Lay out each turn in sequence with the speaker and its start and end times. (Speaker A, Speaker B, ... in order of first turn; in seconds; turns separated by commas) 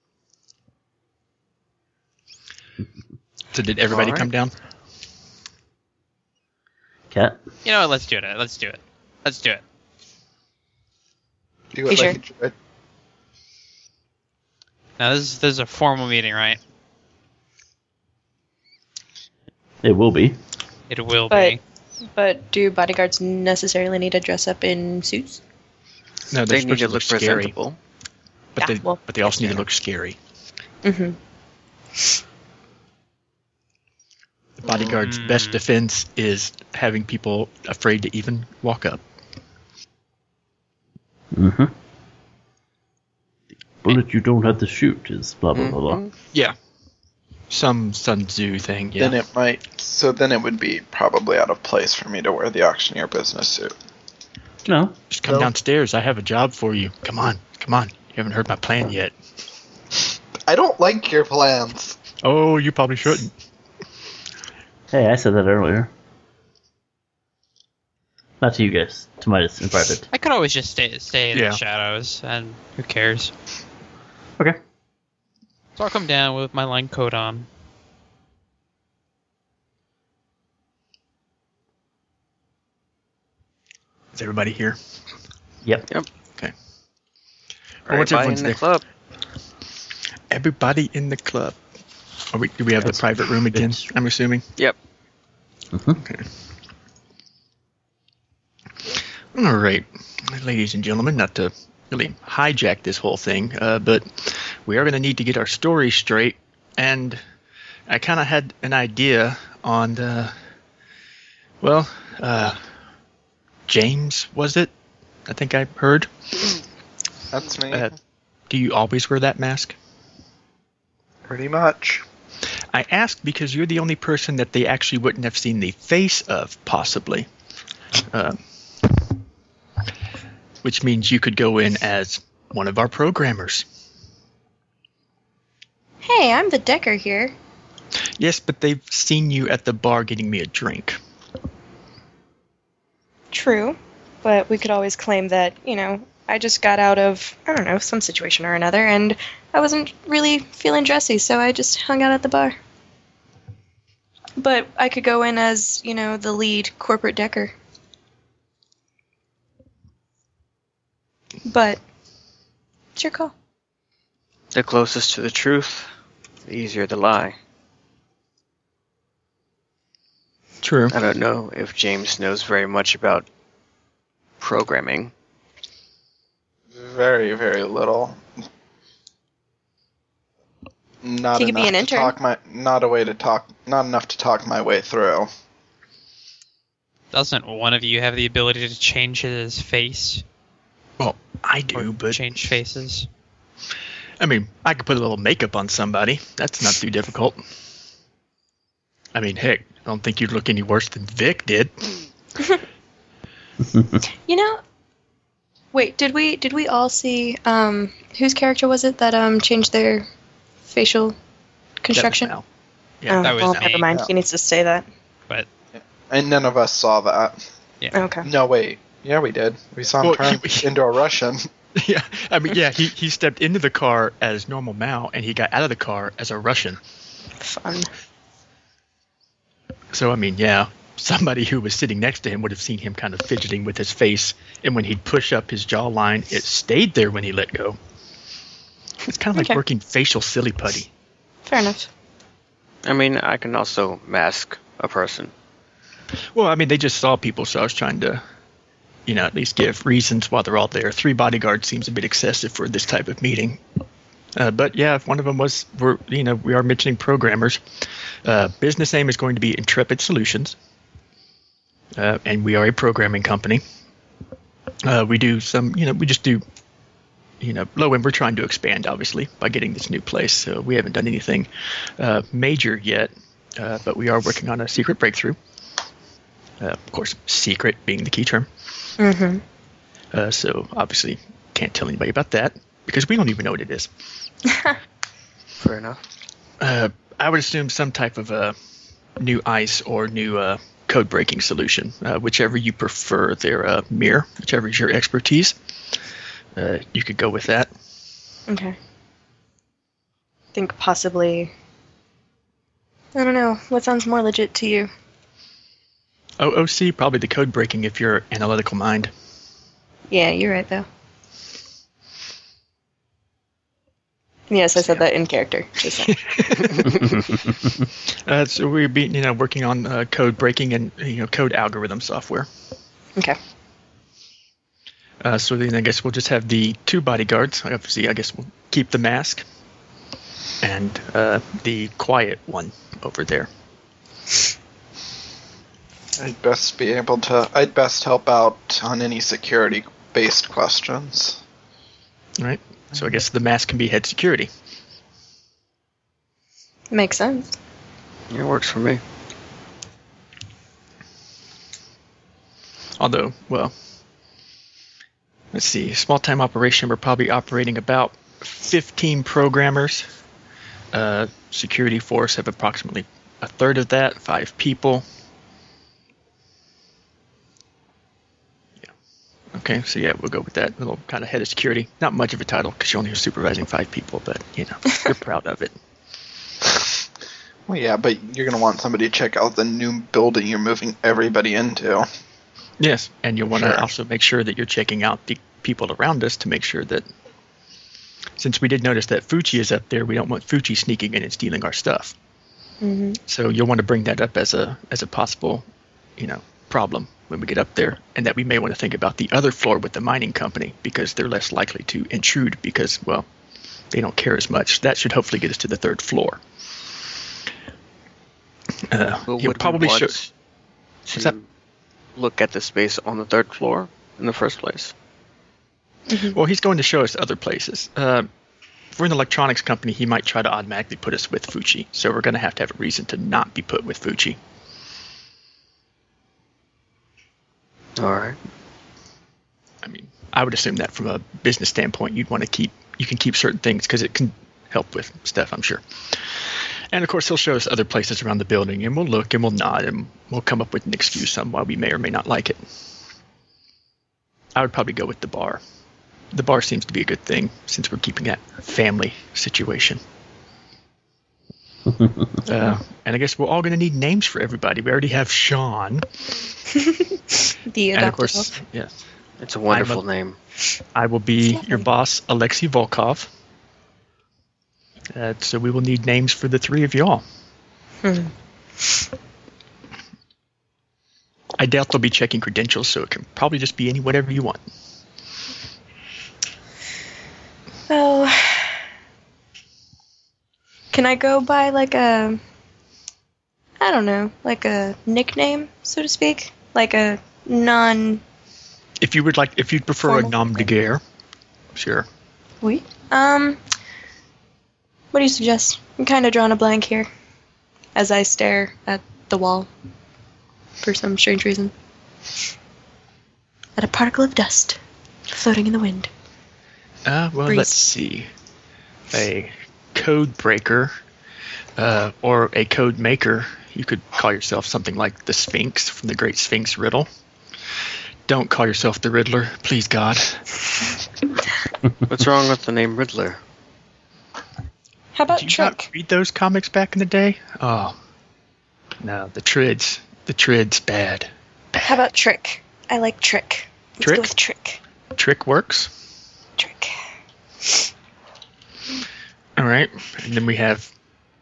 Speaker A: 3.5-4.5, Speaker B: 3.9-4.3, Speaker C: 7.1-7.4, Speaker D: 7.7-9.6, Speaker E: 11.7-12.5, Speaker F: 11.9-12.2, Speaker D: 15.0-16.6, Speaker C: 19.8-20.4, Speaker D: 20.9-21.6, Speaker F: 21.3-21.6, Speaker F: 22.1-25.4, Speaker A: 26.3-27.5, Speaker B: 26.5-27.8, Speaker A: 28.6-30.2, Speaker F: 28.6-29.6, Speaker F: 30.8-31.2, Speaker A: 34.6-39.0, Speaker D: 34.8-35.6, Speaker C: 41.3-41.7, Speaker C: 43.8-46.0, Speaker B: 45.5-46.1, Speaker A: 47.5-49.2, Speaker E: 49.0-53.7, Speaker C: 54.7-55.0, Speaker A: 55.1-59.1, Speaker E: 60.5-62.0, Speaker A: 62.2-63.3, Speaker C: 64.9-65.9, Speaker C: 68.4-70.1, Speaker D: 70.1-73.3, Speaker A: 71.3-71.6, Speaker D: 75.8-77.5, Speaker A: 84.2-84.8, Speaker B: 87.9-88.8, Speaker A: 87.9-88.6, Speaker A: 90.3-91.6, Speaker A: 92.3-94.5, Speaker C: 92.8-93.9, Speaker C: 95.7-96.0, Speaker A: 96.0-96.3, Speaker A: 99.3-107.2, Speaker A: 107.9-110.3, Speaker A: 111.6-112.6, Speaker A: 113.7-114.7, Speaker A: 115.3-116.1, Speaker E: 117.3-117.9, Speaker A: 118.5-119.8, Speaker E: 121.3-122.0, Speaker A: 122.7-127.3, Speaker A: 128.1-128.4, Speaker A: 130.6-133.7, Speaker F: 136.0-137.3, Speaker A: 138.2-141.0, Speaker F: 143.3-152.6, Speaker F: 154.4-157.5, Speaker F: 161.4-161.8, Speaker F: 162.9-163.3, Speaker B: 164.5-165.9, Speaker B: 166.5-167.4, Speaker A: 170.6-170.9, Speaker B: 170.9-173.3, Speaker B: 174.4-175.1, Speaker E: 176.7-178.2, Speaker E: 181.0-185.3, Speaker F: 181.4-182.1, Speaker D: 187.1-190.2, Speaker A: 191.0-192.3, Speaker D: 191.7-193.1, Speaker A: 194.2-197.4, Speaker A: 199.1-201.9, Speaker C: 203.7-204.0, Speaker F: 204.3-204.6, Speaker F: 205.7-210.1, Speaker F: 210.7-211.2, Speaker F: 211.8-212.3, Speaker A: 211.9-212.4, Speaker A: 213.0-213.7, Speaker F: 213.1-214.9, Speaker D: 213.2-213.8, Speaker E: 215.7-217.4, Speaker F: 217.9-218.3, Speaker E: 218.2-221.4, Speaker A: 220.0-220.7, Speaker A: 221.8-226.8, Speaker F: 227.4-227.9, Speaker A: 229.9-237.8, Speaker A: 239.1-240.9, Speaker F: 239.4-239.6, Speaker F: 241.5-241.9, Speaker B: 242.8-245.3, Speaker A: 246.3-248.2, Speaker A: 249.1-253.6, Speaker A: 254.4-257.6, Speaker A: 258.2-260.6, Speaker A: 261.9-263.6, Speaker A: 264.8-266.4, Speaker A: 267.4-275.4, Speaker A: 276.6-278.5, Speaker F: 279.0-279.4, Speaker A: 280.1-283.9, Speaker F: 284.5-284.8, Speaker B: 285.6-286.0, Speaker A: 286.6-288.6, Speaker A: 289.2-295.6, Speaker A: 296.6-297.7, Speaker F: 298.5-298.8, Speaker F: 300.6-301.5, Speaker F: 303.1-304.9, Speaker A: 306.4-309.1, Speaker F: 310.1-310.9, Speaker F: 314.5-316.2, Speaker A: 315.9-317.7, Speaker A: 318.3-322.5, Speaker A: 325.2-329.4, Speaker A: 330.6-333.5, Speaker E: 336.2-341.4, Speaker A: 342.4-344.5, Speaker F: 346.9-347.6, Speaker B: 348.3-349.0, Speaker A: 353.0-353.7, Speaker A: 355.5-360.1, Speaker A: 360.9-365.1, Speaker A: 369.5-375.8, Speaker E: 376.6-376.9, Speaker E: 377.7-382.1, Speaker A: 382.8-387.1, Speaker E: 383.5-383.9, Speaker A: 388.4-392.1, Speaker F: 392.8-393.2, Speaker A: 393.3-395.6, Speaker A: 396.2-403.3, Speaker A: 403.9-406.4, Speaker A: 408.9-410.2, Speaker B: 409.3-410.3, Speaker B: 411.1-411.5, Speaker B: 412.2-414.9, Speaker F: 416.1-416.4, Speaker A: 416.3-418.3, Speaker A: 418.9-424.4, Speaker B: 428.0-428.4, Speaker A: 429.8-435.8, Speaker A: 436.9-442.6, Speaker A: 444.6-445.6, Speaker A: 446.3-450.0, Speaker C: 451.9-452.3, Speaker A: 452.5-456.1, Speaker F: 456.8-458.5, Speaker A: 457.9-459.0, Speaker B: 459.4-460.4, Speaker A: 459.7-460.0, Speaker A: 460.9-463.3, Speaker F: 461.4-461.9, Speaker A: 465.1-467.2, Speaker F: 468.0-468.3, Speaker A: 471.6-474.6, Speaker F: 477.9-478.8, Speaker F: 480.9-482.4, Speaker F: 483.8-488.2, Speaker A: 489.0-491.0, Speaker F: 490.0-490.6, Speaker A: 491.7-492.1, Speaker F: 492.6-493.6, Speaker F: 495.1-497.1, Speaker F: 497.9-499.7, Speaker F: 500.8-501.7, Speaker F: 503.8-506.1, Speaker A: 507.1-508.3, Speaker F: 507.5-507.8, Speaker A: 509.1-510.9, Speaker A: 511.8-517.1, Speaker A: 518.3-520.4, Speaker B: 522.1-523.4, Speaker F: 525.1-525.9, Speaker A: 525.3-528.0, Speaker A: 529.0-532.0, Speaker F: 531.8-534.8, Speaker A: 534.0-534.3, Speaker A: 535.1-535.9, Speaker F: 536.6-537.0, Speaker A: 539.6-540.9